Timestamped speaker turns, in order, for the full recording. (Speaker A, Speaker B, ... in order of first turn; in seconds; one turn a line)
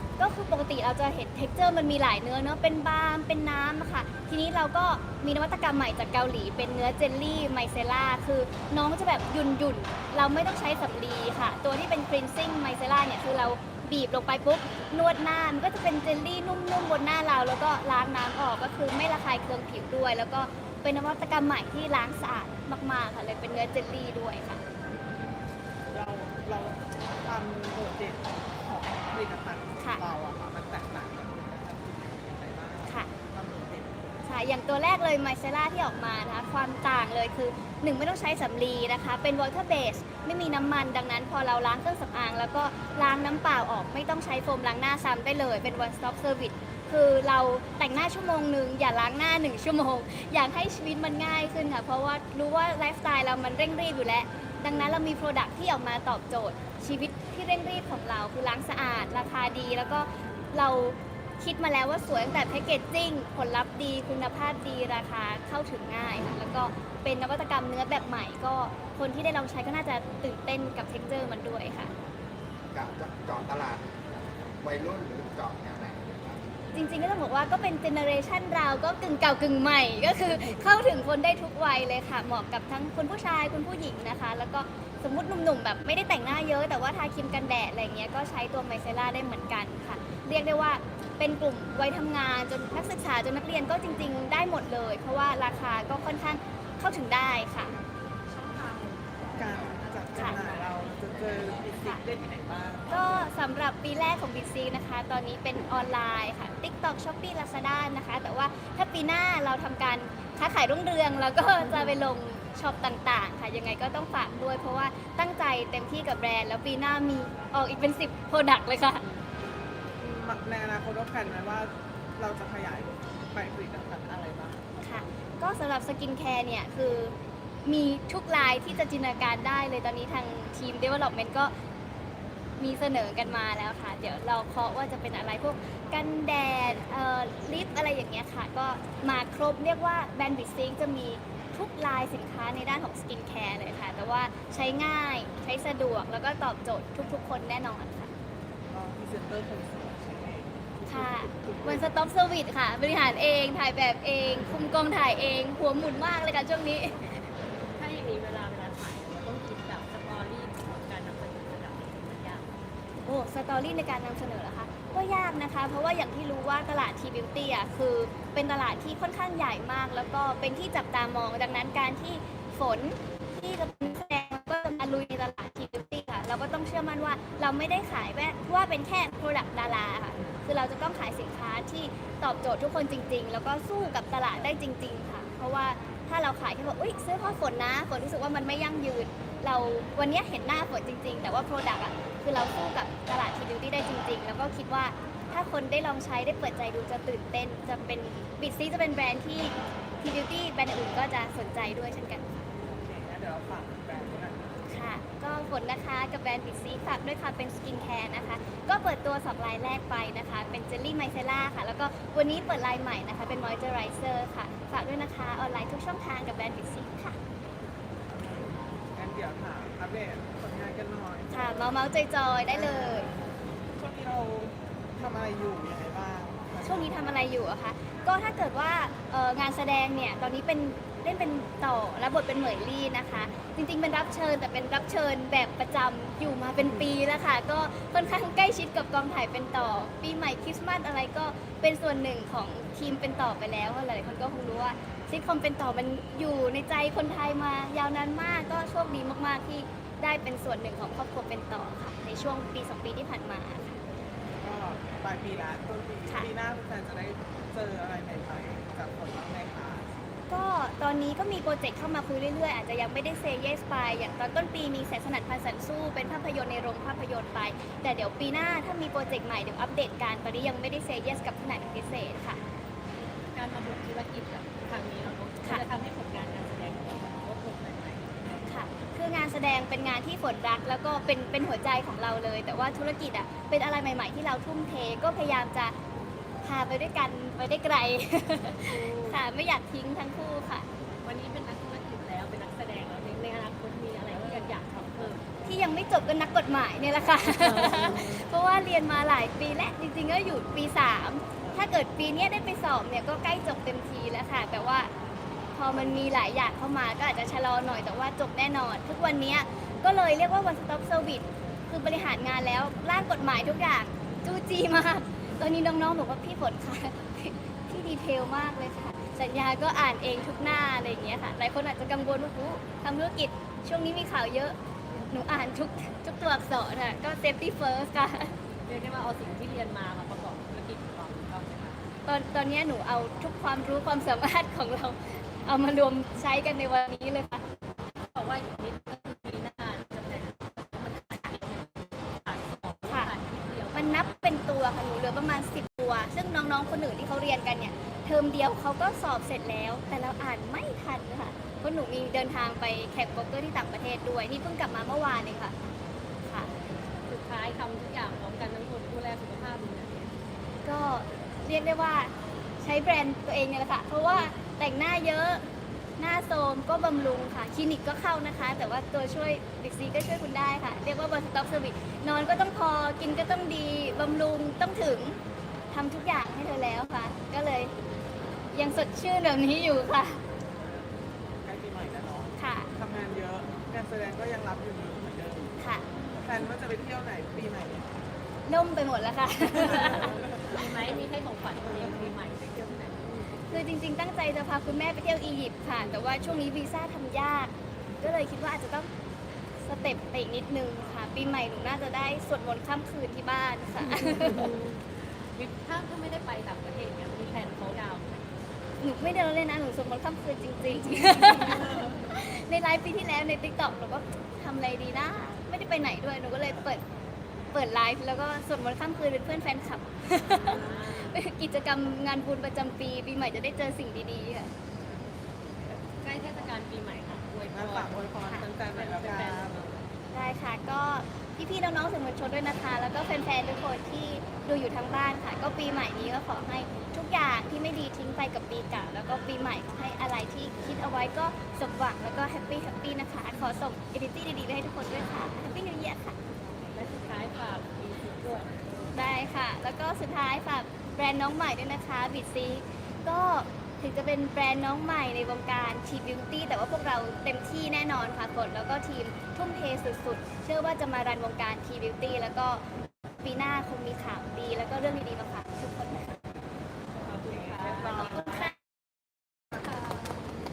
Speaker A: 0.2-24.6
Speaker B: 25.9-34.2
Speaker A: 29.8-30.0
Speaker A: 34.2-71.9
Speaker C: 72.7-73.9
Speaker C: 74.6-76.5
Speaker A: 76.7-97.8
Speaker B: 99.4-103.3
Speaker A: 100.1-100.4
Speaker A: 102.9-119.0
Speaker B: 120.0-124.6
Speaker A: 124.8-131.5
Speaker A: 132.6-148.1
Speaker B: 148.7-151.9
Speaker A: 150.9-157.3
Speaker D: 157.7-162.5
Speaker A: 163.0-202.4
Speaker B: 202.6-204.5
Speaker A: 204.7-217.2
Speaker B: 218.1-221.7
Speaker A: 221.3-223.1
Speaker B: 222.5-223.1
Speaker B: 223.8-227.1
Speaker A: 226.6-253.8
Speaker B: 254.4-259.9
Speaker A: 260.3-272.4
Speaker D: 272.9-278.5
Speaker A: 278.4-285.8
Speaker A: 286.4-290.7
Speaker D: 288.5-289.2
Speaker D: 291.0-295.2
Speaker A: 295.4-304.9
Speaker D: 297.2-298.3
Speaker A: 305.5-328.3
Speaker D: 328.6-331.8
Speaker A: 332.1-337.4
Speaker D: 338.1-344.1
Speaker A: 343.7-355.5
Speaker A: 356.2-356.5
Speaker D: 357.0-360.1
Speaker A: 360.6-365.4
Speaker A: 366.0-375.2
Speaker A: 375.7-377.7
Speaker A: 378.5-380.2
Speaker B: 380.6-380.9
Speaker B: 381.4-385.5
Speaker A: 382.4-382.7
Speaker A: 385.6-385.9
Speaker B: 386.2-388.0
Speaker A: 388.4-390.2
Speaker D: 389.7-393.7
Speaker B: 389.9-390.6
Speaker B: 391.6-392.1
Speaker A: 393.5-398.9
Speaker A: 399.6-404.5
Speaker D: 404.0-408.2
Speaker A: 408.8-416.8
Speaker A: 417.5-424.5
Speaker D: 420.3-421.2
Speaker D: 425.7-429.5
Speaker B: 427.5-429.8
Speaker A: 430.1-446.2
Speaker D: 446.7-448.7
Speaker A: 448.9-462.6
Speaker A: 463.2-466.2
Speaker D: 467.0-468.4
Speaker B: 467.2-468.5
Speaker A: 468.1-468.5